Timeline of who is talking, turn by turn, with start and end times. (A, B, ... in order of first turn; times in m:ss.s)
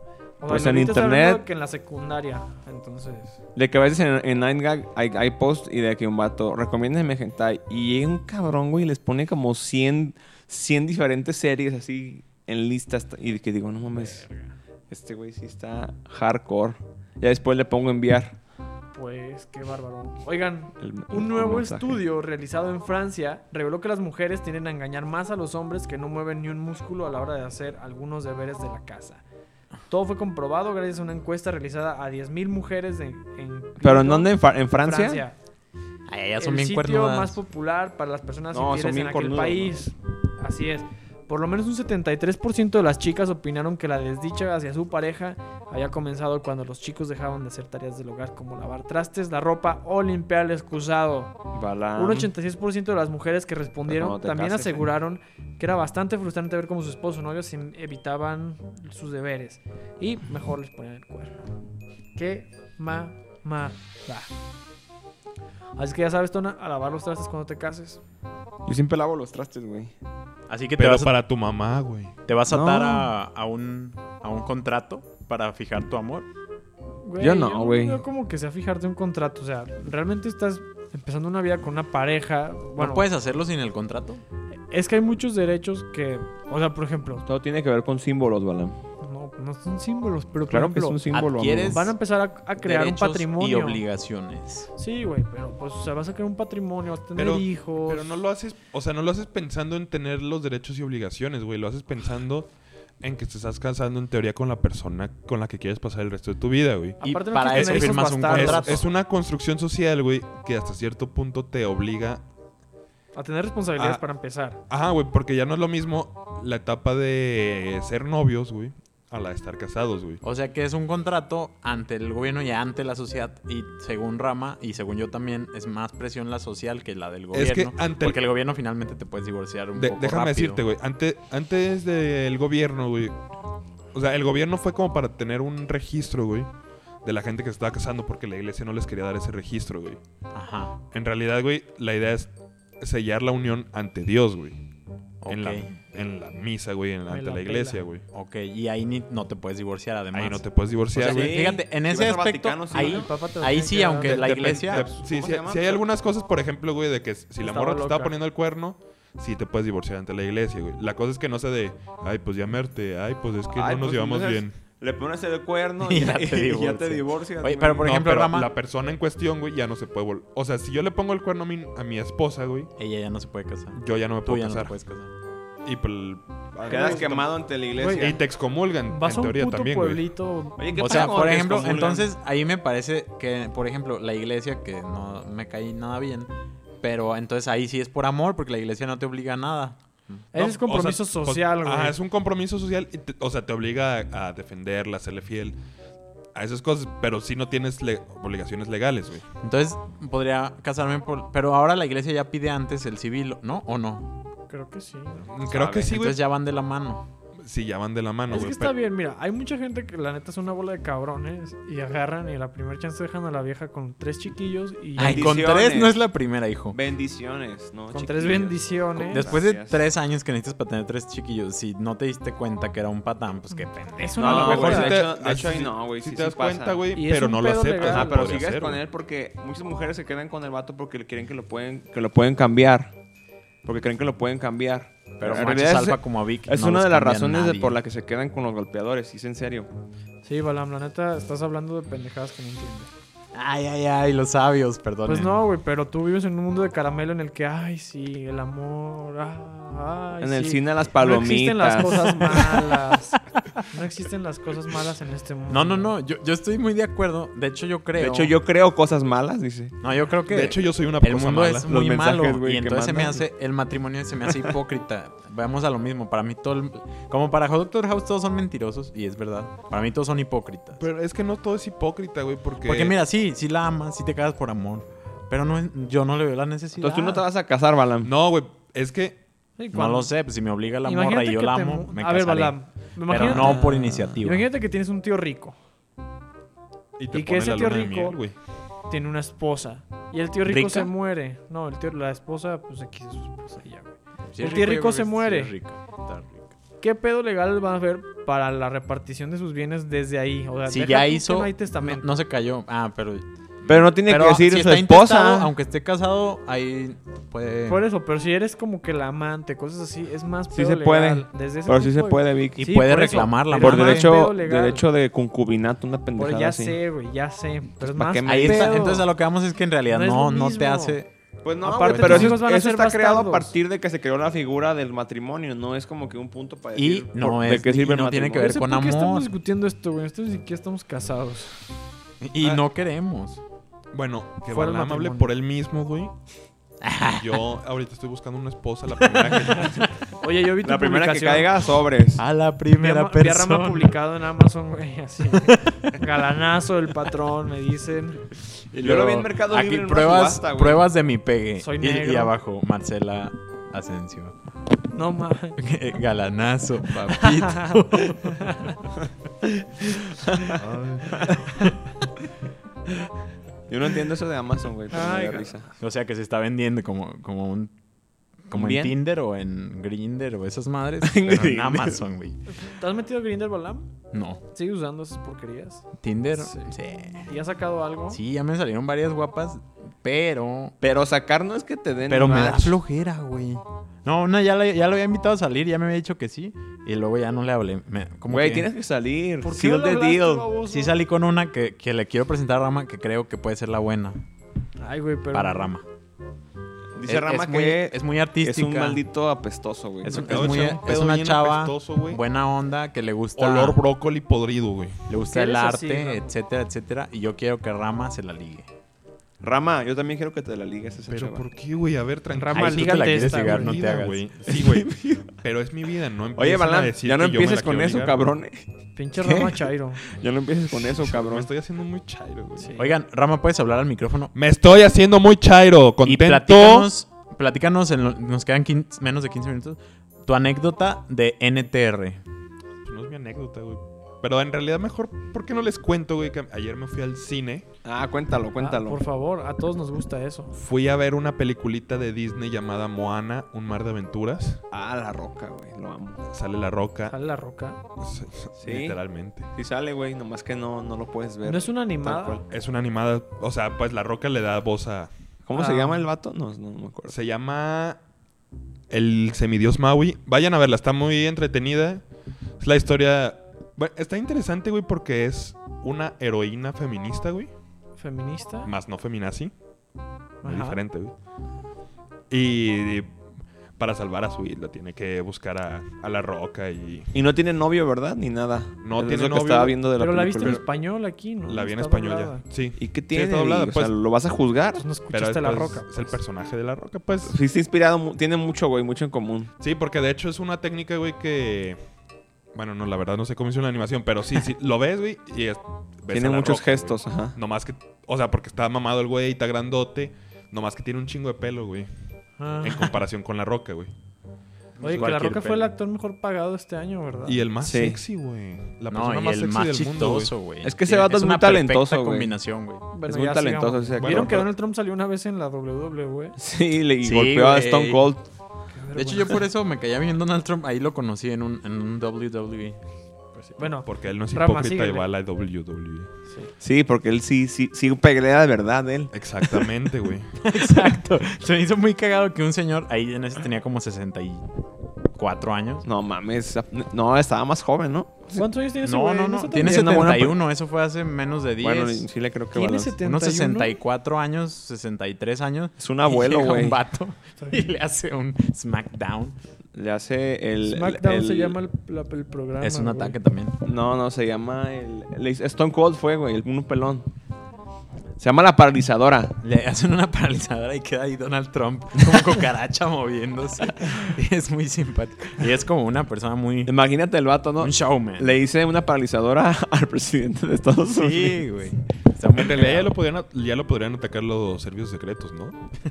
0:00.4-0:03.4 A
0:00.4-0:01.4 B
0:03.6-0:14.2 B
0:14.0-0:14.5 A
0:14.9-0:18.4 B
0:18.9-0:29.2 A
0:20.8-0:22.0 B
0:29.9-0:35.4 A
0:33.8-0:35.2 B
0:36.1-0:37.4 C
0:36.4-0:51.4 A
0:38.5-0:39.8 B
0:51.5-0:52.3 B
0:52.0-1:01.4 A
0:53.9-0:54.9 B
1:02.2-1:04.3 A
1:05.8-1:08.0 A
1:08.6-1:09.9 B
1:10.5-1:11.1 C
1:10.8-1:12.2 D
1:12.3-1:16.3 C
1:12.5-1:13.1 B
1:17.0-1:23.0 A
1:17.2-1:18.0 B
1:22.8-1:24.2 C
1:24.7-1:27.2 A
1:27.3-1:28.8 B
1:29.0-1:31.0 A
1:30.5-1:31.8 B
1:31.1-1:31.9 C
1:31.7-1:33.8 A
1:32.6-1:34.7 C
1:34.8-1:38.2 A
1:37.2-1:47.0 D
1:47.0-1:48.9 A
1:47.0-1:48.8 C
1:47.5-1:52.2 D
1:53.1-1:54.6 A
1:53.8-1:54.0 D
1:54.7-2:00.2 D
2:00.2-2:10.6 C
2:07.3-2:08.2 D
2:09.8-2:13.2 D
2:13.9-2:16.5 D
2:17.0-2:20.0 D
2:20.3-2:20.7 C
2:20.9-2:24.6 D
2:25.2-2:25.7 C
2:25.3-2:28.0 D
2:27.1-2:27.8 A
2:28.1-2:34.9 C
2:30.1-2:31.4 D
2:31.0-2:33.1 B
2:32.7-2:34.3 A
2:34.0-2:44.6 D
2:34.2-2:35.8 B
2:37.4-2:38.1 A
2:43.5-2:47.9 B
2:45.8-2:48.5 C
2:47.8-2:52.7 D
2:52.8-2:55.1 C
2:53.8-2:54.7 D
2:55.6-2:57.3 D
2:56.6-2:58.2 B
2:56.7-2:57.1 A
2:57.8-2:58.2 A
2:58.0-3:00.0 D
2:58.9-3:01.2 A
3:00.6-3:02.1 B
3:00.8-3:06.3 C
3:06.8-3:09.8 C
3:10.3-3:12.0 A
3:10.4-3:15.6 D
3:16.3-3:19.2 D
3:19.4-3:24.1 C
3:24.5-3:25.3 A
3:25.3-3:26.2 D
3:25.5-3:26.0 B
3:25.8-3:27.0 C
3:27.4-3:28.7 D
3:28.3-3:35.3 A
3:35.0-3:36.8 C
3:35.0-3:36.0 B
3:36.7-3:39.8 B
3:37.9-3:39.4 A
3:39.1-3:45.0 C
3:44.0-3:45.0 A
3:44.2-3:46.8 B
3:44.3-3:48.8 D
3:47.0-3:48.3 A
3:47.8-3:52.9 B
3:53.6-3:59.7 B
3:55.2-3:57.8 C
4:00.2-4:02.9 A
4:03.4-4:05.4 C
4:05.1-4:13.2 A
4:10.2-4:12.5 B
4:11.8-4:12.6 C
4:13.7-4:15.9 A
4:15.5-4:18.4 C
4:18.0-4:19.8 B
4:19.8-4:30.8 C
4:20.3-4:21.7 D
4:21.7-4:23.3 B
4:30.8-4:33.0 D
4:32.6-4:37.2 C
4:36.8-4:38.1 B
4:38.0-4:39.2 D
4:39.6-4:40.1 A
4:39.7-4:42.6 C
4:40.8-4:45.6 A
4:43.1-4:44.4 C
4:43.2-4:44.2 B
4:47.0-4:48.3 D
4:47.1-4:48.2 A
4:48.9-4:55.5 A
4:50.5-4:50.9 C
4:54.3-4:56.4 C
4:56.8-5:02.1 A
5:00.7-5:07.8 C
5:03.7-5:05.5 B
5:07.7-5:14.9 A
5:10.5-5:12.7 B
5:12.6-5:14.1 C
5:13.6-5:16.8 B
5:16.2-5:19.1 A
5:17.8-5:18.8 B
5:18.3-5:21.1 C
5:19.9-5:21.0 A
5:21.4-5:28.6 B
5:21.6-5:23.5 A
5:21.6-5:22.4 C
5:26.8-5:29.3 C
5:28.4-5:31.7 A
5:32.2-5:33.4 C
5:33.9-5:36.2 D
5:34.5-5:35.3 A
5:36.8-5:37.4 C
5:37.1-5:39.9 D
5:39.2-5:39.8 C
5:40.1-5:41.6 A
5:40.6-5:42.2 B
5:42.2-5:43.9 C
5:42.8-5:48.2 A
5:45.4-5:45.7 C
5:48.7-5:54.4 C
5:48.8-5:50.9 B
5:51.6-5:52.3 A
5:54.9-5:55.6 A
5:55.6-5:58.7 C
5:57.1-5:58.7 A
5:59.4-6:00.2 A
6:00.2-6:01.4 B
6:01.5-6:01.8 A
6:03.7-6:05.7 B
6:04.9-6:05.7 A
6:05.8-6:07.7 C
6:08.5-6:12.4 C
6:08.5-6:09.0 B
6:11.0-6:12.0 B
6:12.6-6:13.9 A
6:14.1-6:14.4 C
6:14.5-6:16.7 A
6:16.0-6:17.3 C
6:17.3-6:18.2 A
6:18.1-6:20.8 C
6:20.8-6:22.8 B
6:22.1-6:28.7 C
6:28.3-6:30.5 B
6:29.4-6:31.0 A
6:30.7-6:34.2 C
6:34.8-6:35.7 A
6:35.3-6:35.8 C
6:37.0-6:40.6 B
6:37.1-6:39.0 C
6:40.0-6:43.8 C
6:40.2-6:42.2 D
6:43.4-6:45.0 D
6:45.1-6:48.7 C
6:45.2-6:46.3 A
6:49.4-6:51.4 B
6:51.1-6:58.3 D
6:52.4-6:53.9 A
6:52.5-6:54.2 C
6:54.5-6:55.3 B
6:56.4-6:58.6 B
6:59.0-7:00.0 A
6:59.2-6:59.6 C
7:00.0-7:01.5 B
7:00.8-7:02.8 D
7:02.6-7:02.9 A
7:02.8-7:04.3 C
7:04.4-7:06.9 D
7:06.0-7:12.2 C
7:12.8-7:17.7 D
7:17.8-7:19.0 B
7:18.6-7:20.5 A
7:20.5-7:24.6 D
7:24.7-7:26.2 B
7:26.3-7:27.2 D
7:27.1-7:27.8 A
7:28.0-7:29.5 D
7:28.6-7:29.0 B
7:29.5-7:32.4 B
7:31.4-7:32.4 A
7:32.5-7:35.1 D
7:35.4-7:37.2 B
7:35.6-7:36.1 A
7:37.1-7:38.0 D
7:38.9-7:42.0 D
7:42.6-7:47.5 D
7:48.0-7:48.7 A
7:48.6-7:49.5 D
7:50.4-7:50.8 A
7:50.4-7:51.1 D
7:52.3-7:53.2 D
7:53.8-7:57.1 D
7:57.1-8:00.6 B
7:58.8-7:59.8 D
8:00.0-8:02.4 A
8:01.5-8:03.9 D
8:02.8-8:04.8 B
8:04.8-8:06.2 A
8:05.1-8:07.4 D
8:07.2-8:09.5 B
8:09.6-8:11.8 D
8:12.5-8:21.9 D
8:16.1-8:17.4 B
8:22.4-8:23.0 A
8:22.6-8:23.9 D
8:24.8-8:25.7 C
8:24.8-8:27.4 A
8:27.3-8:30.3 D
8:27.6-8:28.0 B
8:28.9-8:32.8 C
8:30.6-8:32.3 B
8:32.9-8:36.4 A
8:33.0-8:34.5 B
8:34.0-8:34.4 D
8:36.4-8:38.3 B
8:37.0-8:38.1 C
8:38.7-8:39.4 A
8:38.9-8:42.8 C
8:43.4-8:45.1 A
8:43.8-8:46.1 D
8:46.6-8:49.1 B
8:49.1-8:50.4 D
8:50.4-8:54.4 C
8:55.2-8:55.8 C
8:55.8-8:58.5 B
8:58.4-9:00.3 A
8:58.8-9:02.1 C
8:59.6-9:00.4 B
9:01.6-9:03.0 B
9:02.5-9:03.7 A
9:03.0-9:09.4 C
9:05.8-9:06.8 B
9:07.4-9:07.7 A
9:09.7-9:11.6 B
9:10.6-9:13.2 A
9:12.6-9:13.6 C
9:13.6-9:17.1 B
9:18.2-9:19.4 B
9:19.4-9:26.7 C
9:26.6-9:31.4 B
9:27.6-9:28.4 C
9:31.0-9:33.0 C
9:32.4-9:35.6 D